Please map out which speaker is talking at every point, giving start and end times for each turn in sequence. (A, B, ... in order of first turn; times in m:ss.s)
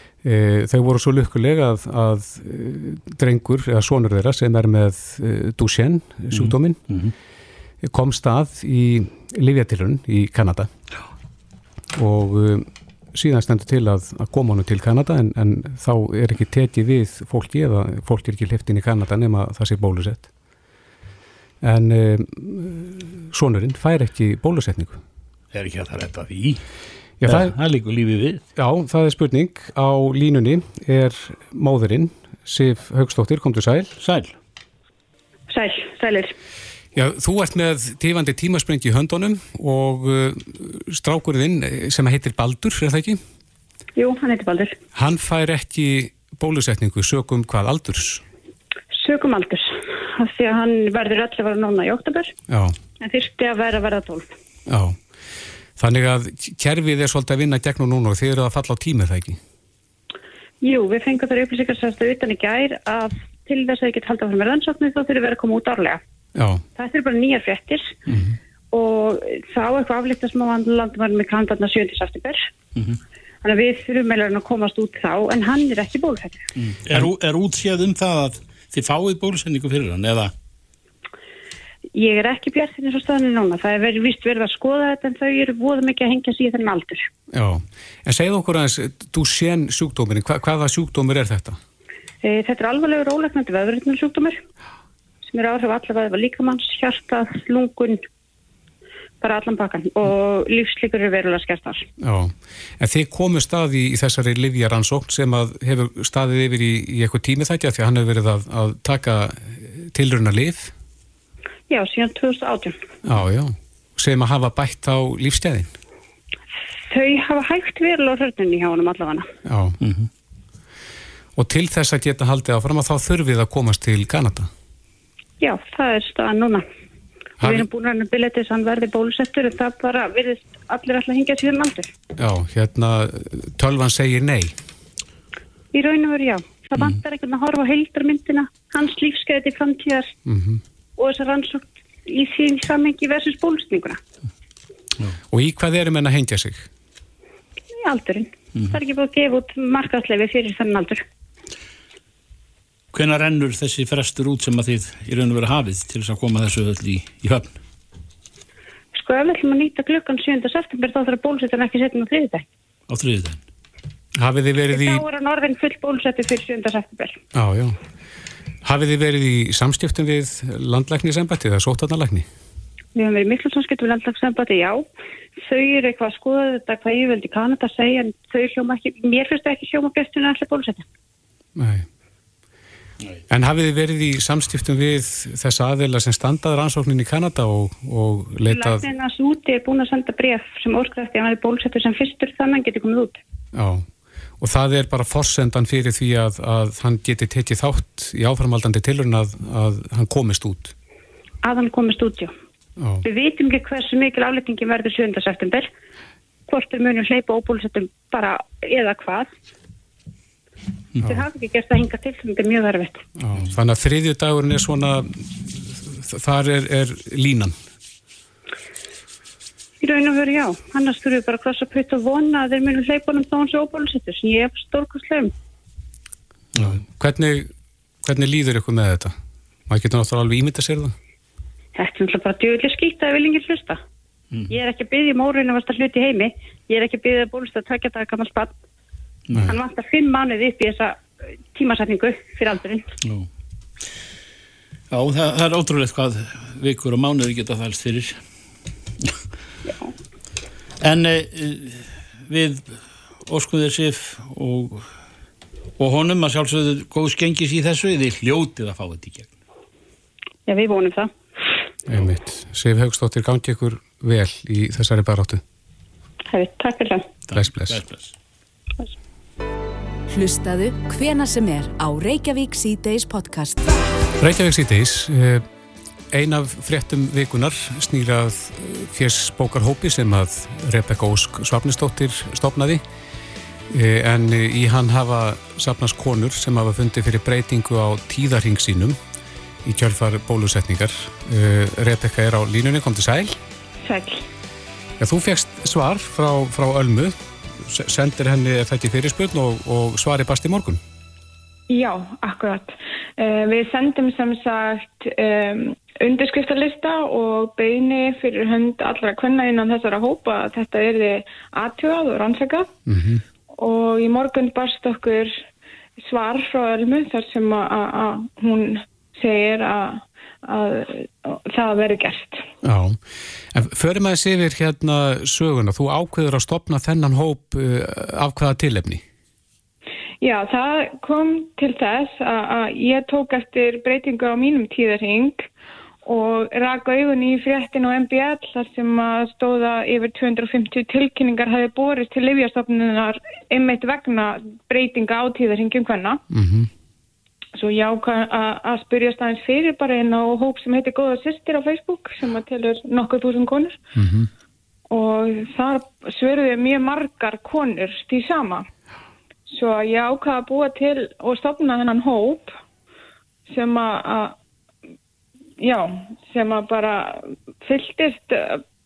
0:00.2-0:06.8 A
0:06.3-0:07.1 B
0:07.8-0:10.7 A
0:11.9-0:20.3 A
0:21.6-0:25.0 A
0:25.5-0:26.6 B
0:27.2-0:27.5 A
0:27.2-0:28.4 B
0:28.6-0:33.9 A
0:34.0-0:34.4 B
0:35.5-0:36.3 C
0:36.9-0:43.2 A
0:44.0-0:44.8 C
0:44.9-0:48.2 A
0:48.9-0:52.3 C
0:52.5-0:52.7 A
0:53.0-0:54.3 C
0:54.7-0:55.0 A
0:55.8-0:59.4 A
1:00.6-1:06.0 C
1:06.3-1:06.6 A
1:06.7-1:08.0 C
1:08.7-1:12.5 C
1:13.4-1:16.4 C
1:16.6-1:20.3 B
1:21.9-1:27.1 C
1:27.3-1:31.6 A
1:32.2-1:34.4 C
1:35.2-1:38.0 C
1:39.2-1:41.9 C
1:42.0-1:50.7 A
1:51.7-1:52.8 C
1:53.0-1:55.7 A
1:56.9-1:59.2 C
1:59.4-1:59.8 A
1:59.8-2:00.1 B
2:01.4-2:04.5 A
2:05.4-2:06.6 C
2:07.4-2:11.9 C
2:12.2-2:14.5 A
2:15.7-2:20.1 C
2:20.2-2:20.6 A
2:21.0-2:24.0 C
2:25.3-2:26.7 A
2:27.7-2:31.0 C
2:32.9-2:37.6 B
2:38.9-2:42.4 C
2:42.9-2:43.4 B
2:44.2-2:45.0 A
2:44.7-2:47.2 C
2:47.3-2:47.8 A
2:48.6-2:52.2 A
2:52.9-2:54.8 C
2:55.4-3:00.8 C
3:01.6-3:01.8 A
3:03.3-3:08.8 A
3:08.5-3:13.2 C
3:13.5-3:13.8 A
3:14.4-3:20.7 A
3:21.4-3:22.3 C
3:22.8-3:23.0 A
3:23.0-3:25.7 C
3:26.5-3:29.3 C
3:31.0-3:33.0 C
3:33.2-3:37.5 A
3:39.8-3:45.3 C
3:46.6-3:47.5 A
3:48.0-3:49.1 A
3:49.7-3:50.9 A
3:51.8-3:53.8 C
3:54.5-3:58.5 C
3:59.3-3:59.5 B
3:59.4-4:01.0 C
4:01.5-4:02.9 C
4:03.0-4:03.3 B
4:04.9-4:08.2 B
4:10.8-4:14.9 B
4:15.8-4:19.3 B
4:20.4-4:21.1 C
4:21.9-4:25.4 A
4:26.3-4:27.1 C
4:27.3-4:28.1 B
4:27.4-4:27.8 A
4:30.1-4:33.8 D
4:34.2-4:35.4 A
4:36.1-4:42.8 A
4:43.7-4:49.0 A
4:49.6-4:53.4 A
4:53.8-4:54.2 E
4:55.0-5:00.8 A
5:01.7-5:12.7 E
5:12.9-5:13.2 A
5:13.6-5:15.4 E
5:16.0-5:22.4 E
5:22.6-5:29.0 A
5:30.2-5:35.5 E
5:36.0-5:46.2 E
5:46.3-5:46.7 A
5:47.5-5:53.8 E
5:54.0-5:54.3 A
5:54.9-5:58.7 E
5:59.5-6:02.6 E
6:03.5-6:04.4 E
6:05.6-6:08.6 E